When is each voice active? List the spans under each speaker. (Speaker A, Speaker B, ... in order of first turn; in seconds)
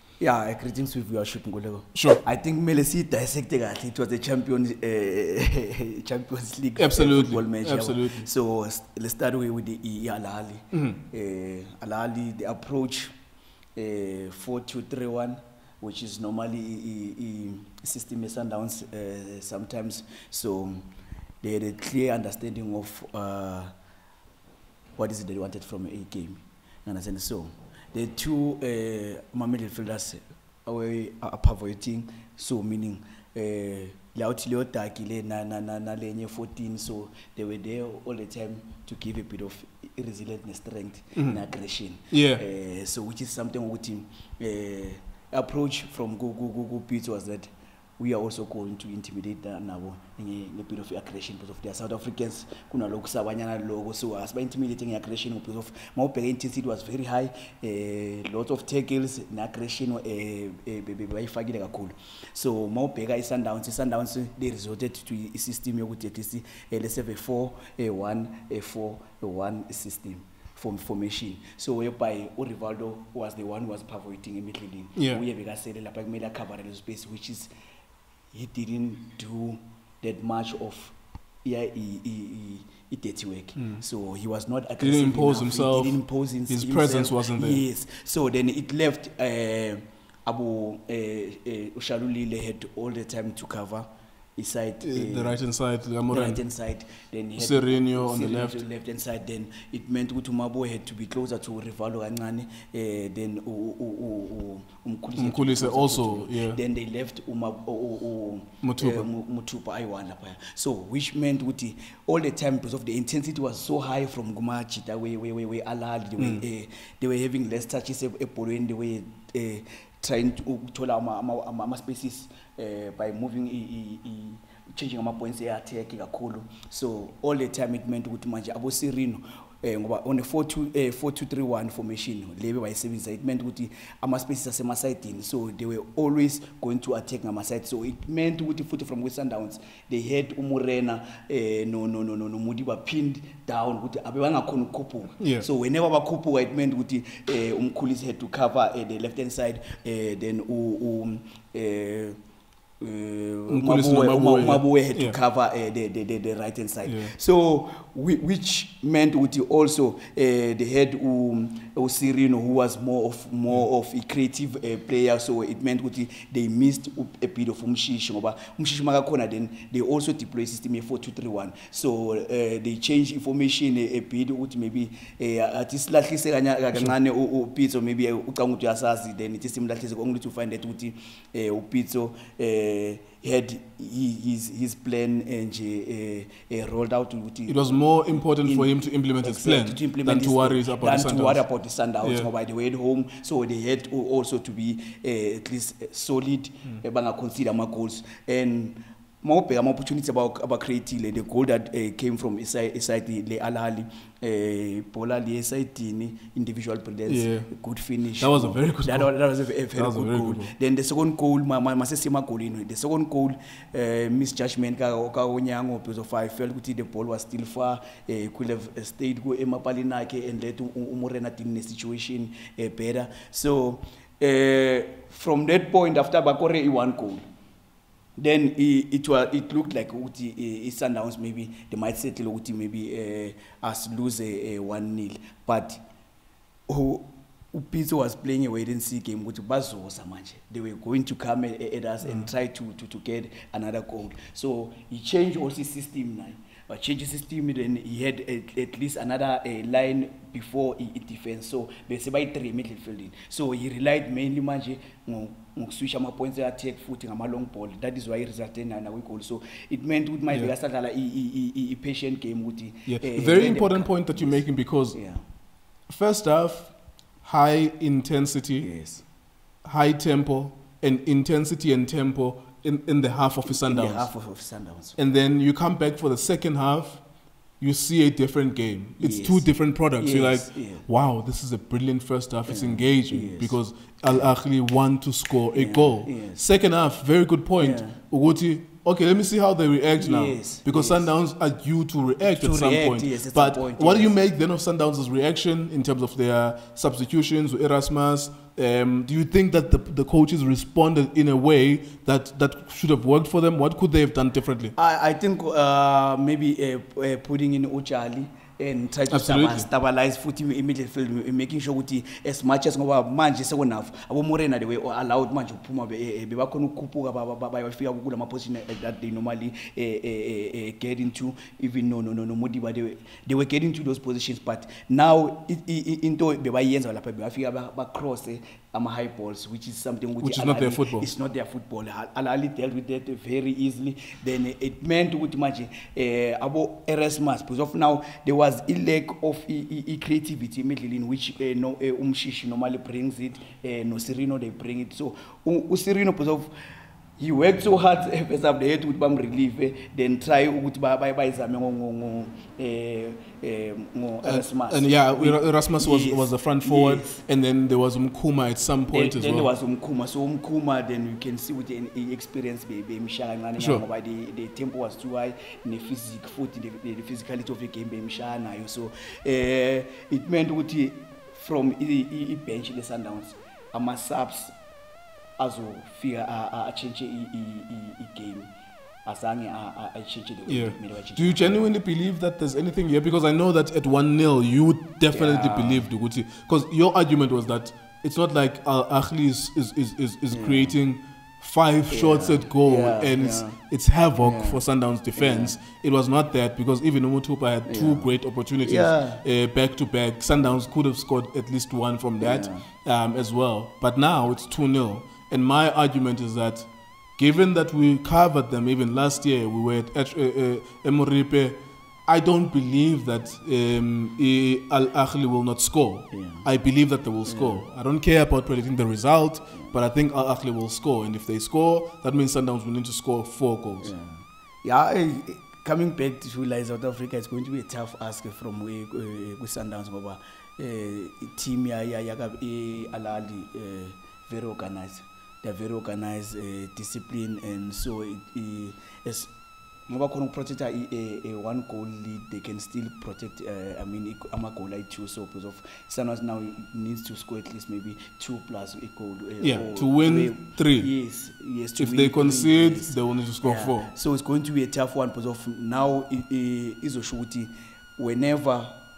Speaker A: 0.2-13.1, 13.8-20.8, 21.4-23.7, 25.0-77.5, 78.3-95.4, 96.1-152.2, 152.8-187.7, 188.4-227.2, 228.2-235.8, 236.7-265.2, 268.6-269.0, 273.5-275.0, 279.0-280.9, 282.5-283.6, 285.5-286.4, 287.6-288.0, 290.0-291.1, 292.2-294.1, 304.7-346.5, 347.2-357.2, 358.9-374.5, 375.4-378.5, 379.0-381.6, 385.1-385.9, 390.3-390.8, 391.9-393.6, 394.2-394.6, 395.1-395.5, 397.7-398.1, 398.6-399.2, 402.2-402.6, 416.1-416.5, 417.2-417.6, 423.8-439.3, 439.9-458.7
Speaker B: 1.9-2.2, 6.8-8.3, 10.7-11.0, 42.1-42.4, 75.0-75.2, 83.6-83.8, 84.8-87.6, 94.8-96.4, 97.4-98.6, 105.2-106.6, 108.6-109.1, 116.2-116.4, 145.2-145.4, 153.5-155.2, 156.8-157.1, 187.5-191.4, 192.0-192.3, 207.1-207.5, 208.2-209.1, 209.7-210.5, 242.0-242.3, 262.9-265.0, 265.9-268.7, 269.6-274.1, 275.0-277.0, 277.6-304.7, 309.1-309.7, 330.2-331.1, 354.2-359.5, 363.6-363.8, 380.4-423.9, 449.4-450.9, 451.8-453.9